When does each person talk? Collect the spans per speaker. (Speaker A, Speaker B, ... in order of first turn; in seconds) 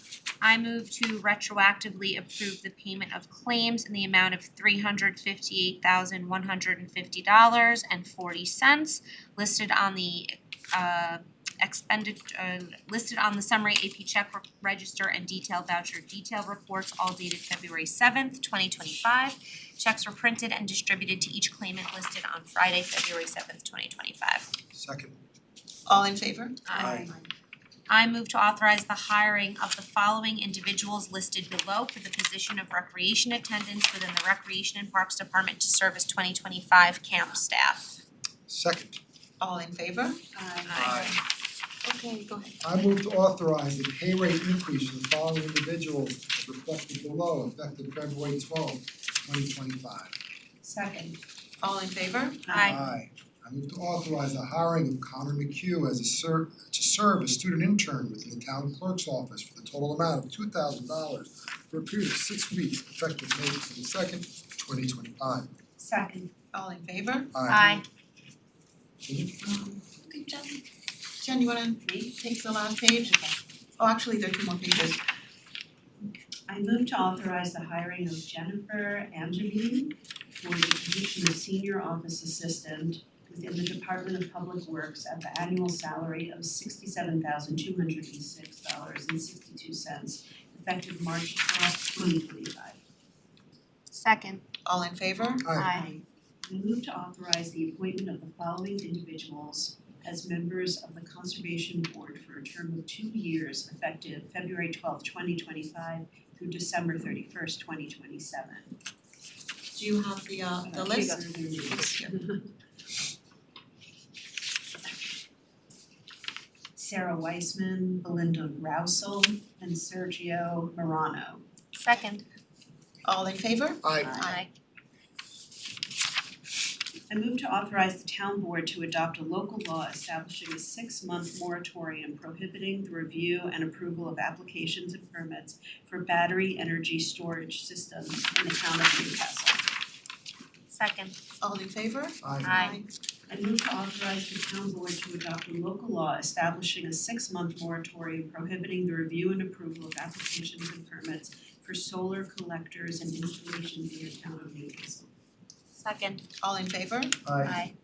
Speaker A: 0.4-24.5, 26.7-27.1, 27.9-38.0, 40.7-41.2, 52.5-52.8, 67.5-67.8, 93.9-94.4, 95.5-95.9, 121.7-122.2, 124.2-124.5, 140.7-141.2, 142.4-142.8, 155.8-156.2, 157.4-157.7
Speaker B: 24.7-25.2, 26.8-27.1, 38.5-39.0, 40.8-41.2, 42.6-50.1, 52.6-65.5, 67.3-67.8, 69.0-69.3, 95.5-95.7, 123.8-124.3, 142.2-142.6, 157.2-157.6
Speaker C: 25.9-27.3, 39.4-40.2, 41.8-42.6, 51.6-52.4, 66.5-67.3, 69.4-70.6, 71.2-73.1, 73.8-75.0, 94.7-95.9, 109.8-111.2, 123.0-124.4, 141.4-142.9, 156.4-157.2
Speaker D: 40.3-40.9, 50.6-51.2, 52.5-52.8, 65.8-66.4, 71.8-72.2, 76.5-92.8, 95.7-108.8, 110.6-112.0, 116.8-121.4, 127.1-139.7, 143.3-155.1